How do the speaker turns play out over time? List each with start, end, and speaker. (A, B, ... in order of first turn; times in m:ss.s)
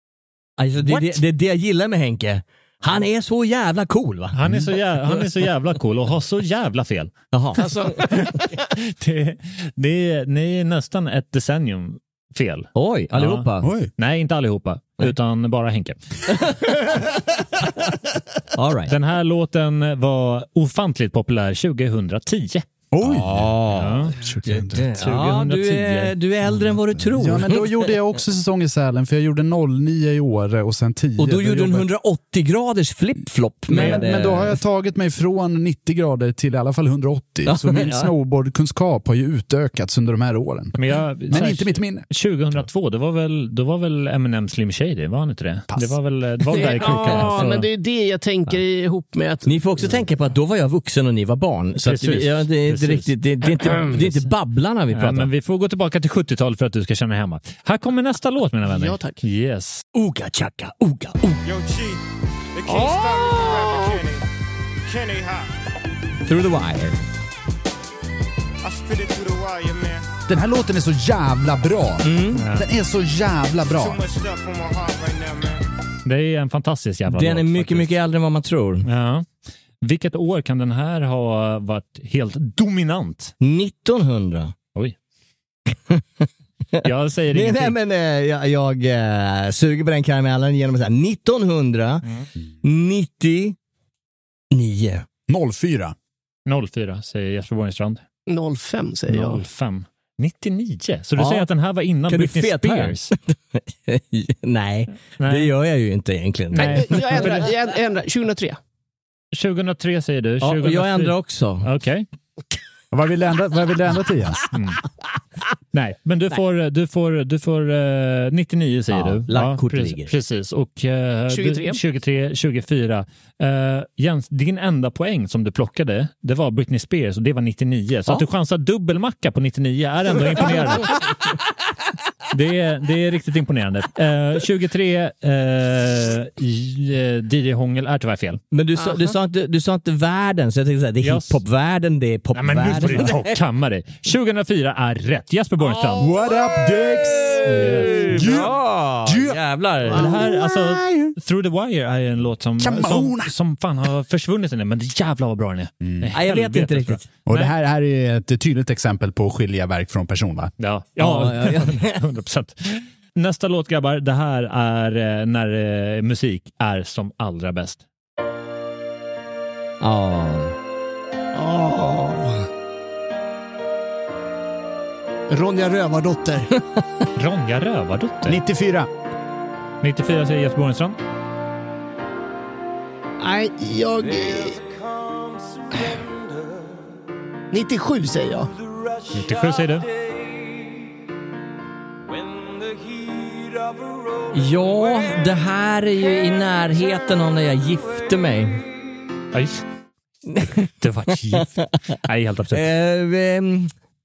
0:00.6-0:04.4 A
0:00.8-0:01.2 B
0:04.3-0:07.2 B
0:07.3-0:07.7 A
0:07.6-0:08.1 C
0:08.1-0:16.0 B
0:12.8-0:13.7 A
0:13.6-0:13.9 D
0:18.5-0:18.9 A
0:18.9-0:22.6 B
0:22.9-0:24.9 D
0:23.0-0:27.9 A
0:23.8-0:24.2 B
0:25.0-0:26.2 B
0:27.0-0:31.9 D
0:31.2-0:34.6 A
0:33.7-0:42.1 D
0:33.7-0:34.1 B
0:37.5-0:38.1 A
0:40.8-0:47.7 B
0:45.7-0:46.0 D
0:46.5-0:49.6 C
0:46.8-0:47.5 A
0:49.4-0:55.3 A
0:51.8-0:53.1 B
0:53.9-0:54.2 B
0:54.9-0:59.8 B
0:58.7-0:59.2 C
0:59.9-1:01.4 A
1:01.4-1:02.0 E
1:02.6-1:04.2 E
1:02.7-1:03.8 C
1:04.9-1:05.5 E
1:06.3-1:07.0 A
1:08.6-1:10.0 E
1:10.3-1:14.0 D
1:12.0-1:12.4 A
1:12.4-1:12.7 B
1:13.7-1:15.6 E
1:16.0-1:17.9 B
1:17.1-1:18.9 A
1:18.8-1:19.3 B
1:19.8-1:23.3 B
1:23.4-1:24.5 A
1:25.9-1:32.0 A
1:26.8-1:27.8 B
1:32.6-1:33.6 A
1:34.5-1:35.1 A
1:35.3-1:36.0 D
1:36.5-1:38.0 B
1:38.3-1:39.4 C
1:39.1-1:43.1 B
1:41.2-1:41.5 A
1:42.1-1:47.4 A
1:45.2-1:45.5 B
1:46.5-1:47.5 B
1:46.6-1:48.6 C
1:49.3-1:52.1 B
1:50.4-1:51.7 A
1:52.9-1:54.4 D
1:54.5-1:54.8 B
1:55.7-2:11.2 B
1:58.9-2:00.1 A
2:01.3-2:01.8 C
2:12.3-2:18.4 B
2:18.5-2:23.3 A
2:21.0-2:21.4 B
2:22.3-2:26.1 B
2:26.0-2:29.4 D
2:27.5-2:28.3 B
2:27.5-2:30.1 A
2:29.9-2:37.5 B
2:29.9-2:31.1 D
2:32.6-2:33.3 D
2:35.8-2:36.1 D
2:36.1-2:37.0 A
2:37.3-2:40.5 D
2:40.6-2:47.8 B
2:41.0-2:42.0 A
2:49.8-2:50.6 A
2:51.3-2:52.5 C
2:55.3-2:56.6 C
2:57.2-2:58.4 B
2:58.2-2:58.9 D
2:59.8-3:01.0 B
3:03.2-3:04.7 C
3:07.5-3:08.5 C
3:09.1-3:09.9 B
3:14.3-3:18.6 A
3:19.3-3:19.6 B
3:20.3-3:20.7 A
3:20.6-3:22.6 B
3:22.5-3:23.7 A